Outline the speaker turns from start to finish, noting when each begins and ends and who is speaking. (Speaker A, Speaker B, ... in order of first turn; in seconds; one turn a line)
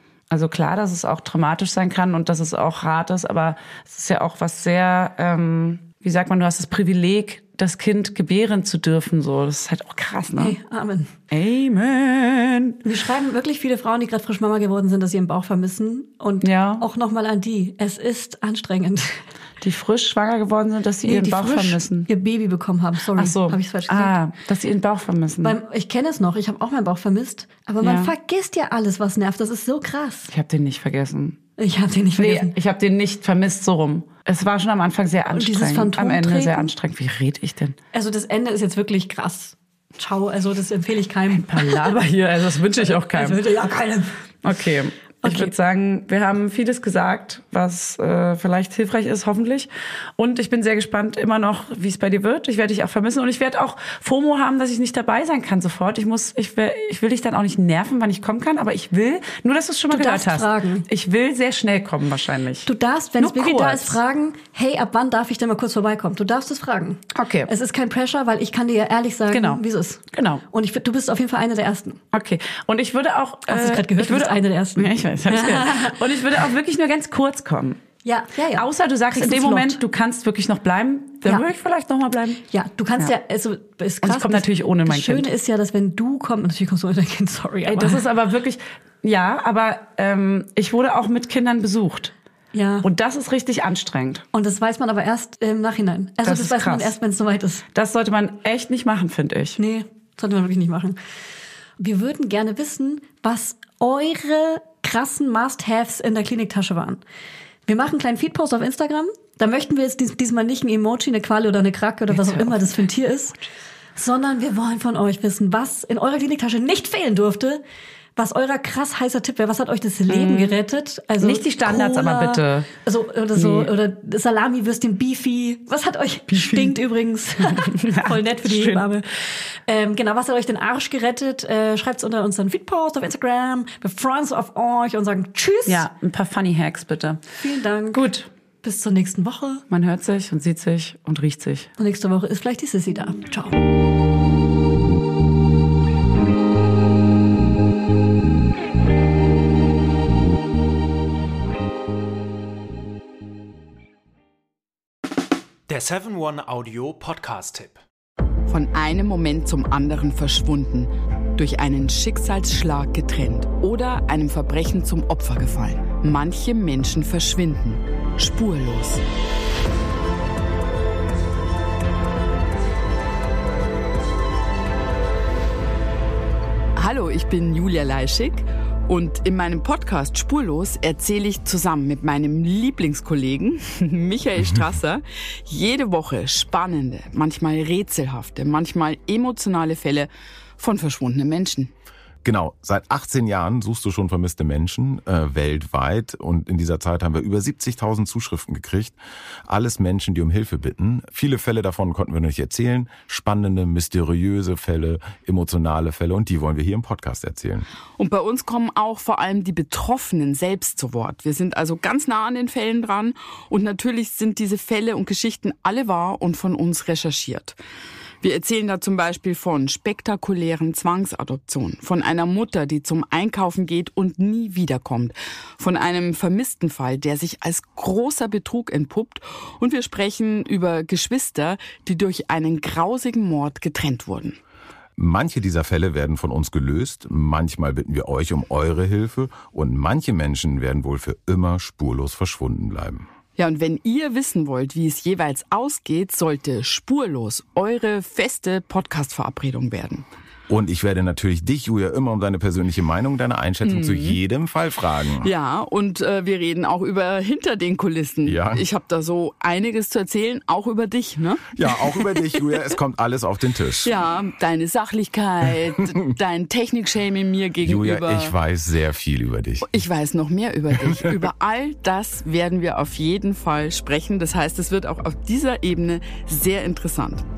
Speaker A: 0.3-10.6
Speaker B: 10.3-11.1
Speaker A: 11.3-12.8
Speaker B: 12.8-19.2
Speaker A: 16.4-16.9
Speaker A: 19.6-22.1
Speaker B: 21.0-24.2
Speaker A: 23.1-25.6
Speaker B: 25.4-30.3
Speaker A: 27.8-28.1
Speaker A: 30.3-31.4
Speaker B: 31.6-32.5
Speaker A: 32.1-37.8
Speaker B: 35.3-36.7
Speaker B: 37.9-41.9
Speaker A: 41.3-43.4
Speaker B: 42.8-44.1
Speaker A: 44.4-64.0
Speaker B: 45.2-45.5
Speaker B: 59.9-60.9
Speaker B: 62.6-72.0
Speaker A: 67.1-67.5
Speaker A: 69.3-70.4
Speaker A: 72.1-77.8
Speaker B: 73.5-76.0
Speaker B: 78.0-79.8
Speaker A: 78.5-82.4
Speaker B: 82.5-88.0
Speaker A: 84.0-85.3
Speaker A: 87.6-92.1
Speaker B: 92.5-92.9
Speaker A: 92.8-94.2
Speaker B: 94.3-97.6
Speaker A: 96.2-97.0
Speaker A: 97.7-99.6
Speaker B: 99.6-101.0
Speaker B: 101.8-107.0
Speaker B: 107.7-113.4
Speaker A: 112.1-112.9
Speaker B: 114.0-117.6
Speaker B: 118.2-135.9
Speaker A: 120.1-120.6
Speaker A: 121.2-122.7
Speaker A: 123.3-123.7
Speaker A: 126.3-126.7
Speaker A: 127.5-128.9
Speaker A: 135.7-137.2
Speaker B: 137.4-138.1
Speaker A: 137.9-138.3
Speaker B: 138.6-139.6
Speaker A: 139.7-141.7
Speaker B: 141.8-143.6
Speaker C: 155.7-157.8
Speaker D: 158.5-169.0
Speaker D: 176.8-191.7
Speaker E: 192.2-198.9
Speaker E: 199.5-207.7
Speaker D: 208.0-217.5
Speaker D: 218.2-234.4
Speaker E: 235.0-243.1
Speaker D: 243.4-250.0
Speaker E: 250.5-255.3
Speaker D: 253.6-254.2
Speaker D: 255.2-262.7
Speaker E: 258.2-258.6
Speaker E: 261.5-263.9
Speaker D: 263.8-268.3
Speaker E: 267.6-269.7
Speaker D: 269.6-277.2